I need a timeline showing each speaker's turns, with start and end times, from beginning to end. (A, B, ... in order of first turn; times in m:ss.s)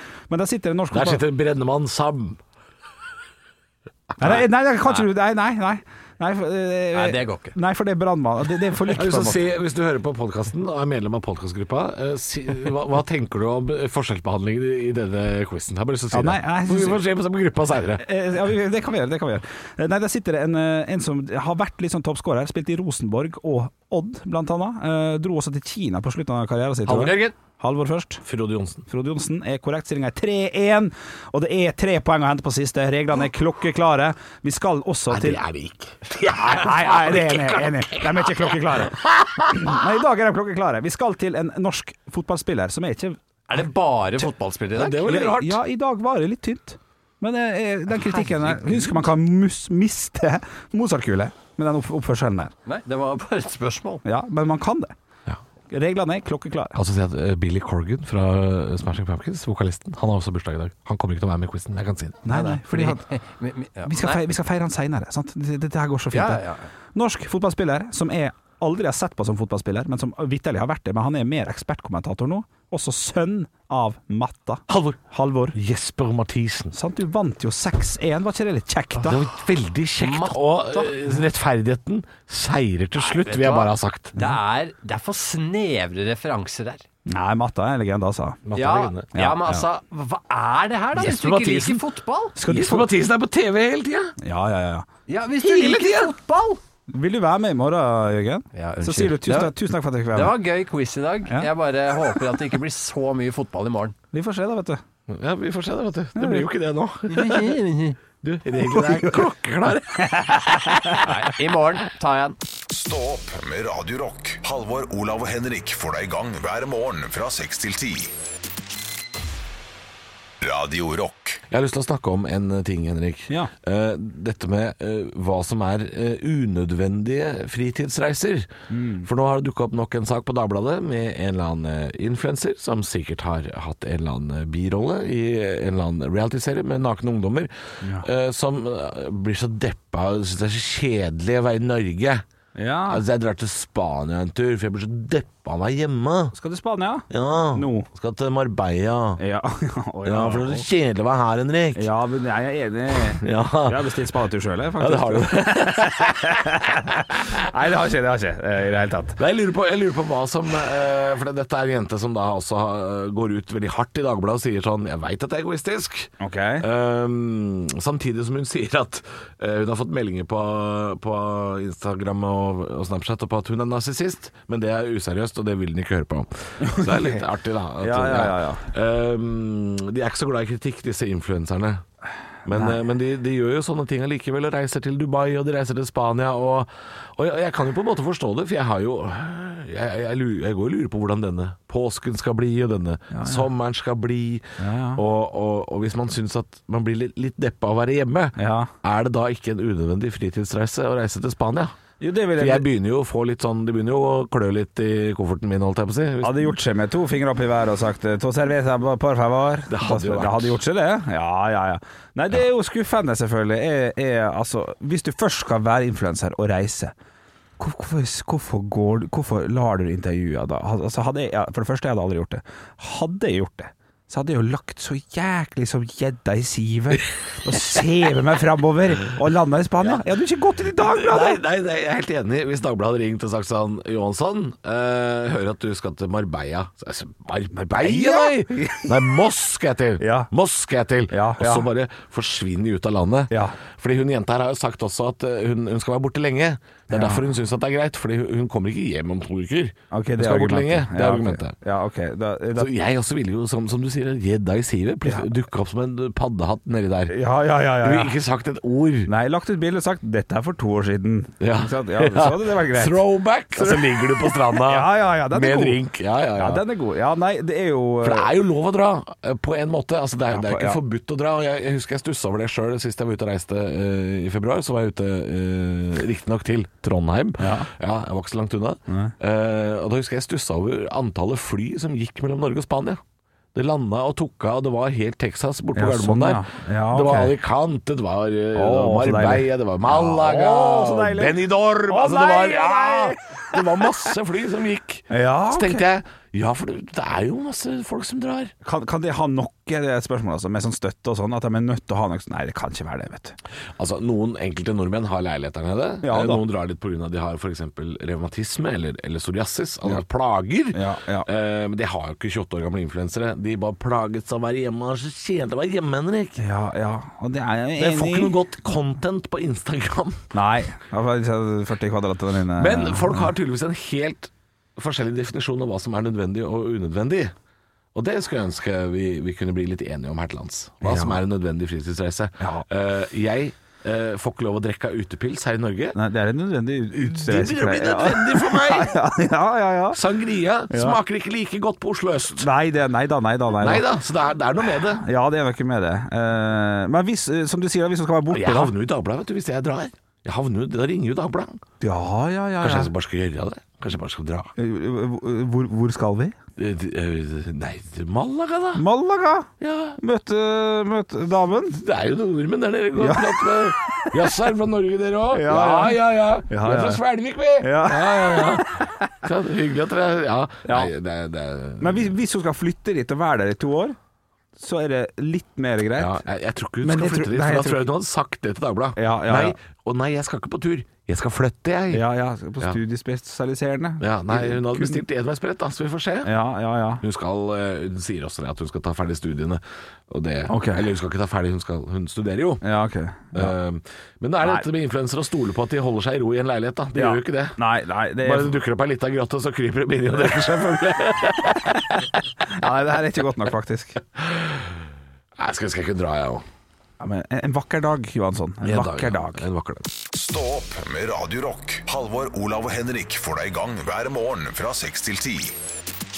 0:00.3-0:01.2 A
0:00.9-0:02.4 B
0:04.2-0:09.4 A
0:04.3-0:05.0 C
0:06.9-0:07.6 C
0:08.9-0:18.0 B
0:16.1-0:17.0 A
0:18.0-0:28.2 A
0:26.8-0:27.3 B
0:28.2-0:28.8 B
0:28.9-0:35.4 A
0:35.1-0:39.8 B
0:36.3-0:43.2 A
0:43.5-0:45.1 C
0:44.7-0:45.6 B
0:45.0-0:52.5 A
0:48.0-0:49.0 C
0:52.6-0:54.0 C
0:54.0-0:54.9 A
0:55.7-0:56.8 A
0:56.7-1:02.2 B
1:02.2-1:03.1 A
1:02.3-1:04.2 C
1:03.8-1:15.6 A
1:06.1-1:06.7 C
1:14.7-1:15.0 B
1:15.5-1:16.7 B
1:16.7-1:19.2 A
1:19.0-1:24.1 B
1:20.0-1:21.0 C
1:23.0-1:26.8 C
1:27.1-1:28.4 A
1:28.4-1:29.1 B
1:28.5-1:32.4 C
1:29.1-1:29.6 A
1:30.9-1:31.8 B
1:32.4-1:32.9 A
1:32.4-1:34.1 B
1:34.2-1:34.9 A
1:35.1-1:36.6 C
1:35.4-1:36.1 B
1:36.9-1:40.4 A
1:38.5-1:39.6 C
1:40.1-1:44.0 C
1:44.1-1:44.8 A
1:45.1-1:47.6 B
1:46.1-1:46.5 A
1:47.1-1:48.0 C
1:48.2-1:51.0 B
1:48.8-1:49.2 A
1:50.0-1:51.0 A
1:51.0-1:52.4 C
1:52.7-1:58.1 D
2:00.4-2:01.4 D
2:01.5-2:08.5 B
2:08.7-2:09.1 A
2:09.0-2:22.2 B
2:22.6-2:23.0 A
2:22.9-2:26.3 B
2:26.3-2:27.9 A
2:27.1-2:29.2 B
2:29.2-2:30.6 A
2:30.0-2:31.9 B
2:31.7-2:39.2 A
2:33.2-2:34.0 B
2:34.8-2:36.4 B
2:39.2-3:01.8 B
2:46.2-2:46.6 A
2:56.6-2:57.2 A
2:57.8-2:58.7 A
3:02.4-3:21.8 B
3:02.5-3:02.8 A
3:13.1-3:13.5 A
3:14.6-3:15.0 A
3:18.4-3:18.7 A
3:22.0-3:22.7 A
3:22.3-3:26.6 B
3:26.2-3:36.9 A
3:29.7-3:30.6 B
3:37.6-3:51.4 A
3:50.8-4:11.6 B
3:57.6-3:59.0 A
4:00.0-4:00.3 A
4:01.1-4:01.7 A
4:03.3-4:03.6 A
4:06.9-4:07.2 A
4:09.9-4:12.7 A
4:12.6-4:17.2 B
4:17.1-4:18.1 A
4:17.8-4:19.1 B
4:19.1-4:25.8 A
4:21.4-4:26.6 B
4:26.4-4:28.3 A
4:28.0-4:43.0 B
4:30.3-4:30.8 A
4:37.4-4:37.7 A
4:38.9-4:39.1 A
4:43.5-4:58.5 B
4:45.7-4:47.3 A
4:48.5-4:53.9 A
4:55.1-4:55.8 A
4:58.6-5:03.4 A
5:03.8-5:16.4 B
5:06.0-5:06.4 A
5:10.7-5:11.3 A
5:16.4-5:18.3 A
5:17.8-5:20.2 B
5:20.3-5:23.3 A
5:22.6-5:27.3 B
5:27.9-5:36.0 B
5:30.8-5:31.2 A
5:32.4-5:32.6 A
5:35.9-5:40.0 A
5:36.9-5:39.0 B
5:39.9-5:42.5 B
5:40.7-5:41.0 A
5:42.4-5:43.9 A
5:43.6-5:45.0 B
5:44.9-5:48.7 A
5:48.3-5:51.6 B
5:51.8-5:52.9 A
5:52.6-5:54.5 B
5:54.6-5:56.3 A
5:56.6-5:58.8 B
5:58.7-6:01.8 A
5:59.6-6:00.0 B
6:01.7-6:12.1 B
6:03.0-6:04.2 A
6:05.3-6:07.0 A
6:07.6-6:09.1 A
6:10.6-6:10.9 A
6:11.8-6:14.0 A
6:14.6-6:16.2 A
6:16.0-6:22.0 B
6:16.8-6:17.9 A
6:19.0-6:19.6 A
6:21.9-6:25.0 A
6:24.0-6:26.3 B
6:26.2-6:27.0 A
6:27.0-6:32.6 B
6:30.5-6:30.9 A
6:32.6-6:33.5 A
6:33.3-6:37.6 B
6:36.9-6:38.6 A
6:38.2-6:41.9 B
6:41.7-6:44.0 A
6:44.2-6:44.7 B
6:45.4-6:46.4 B
6:47.0-6:49.4 A
6:48.6-6:49.9 B
6:50.1-6:55.6 D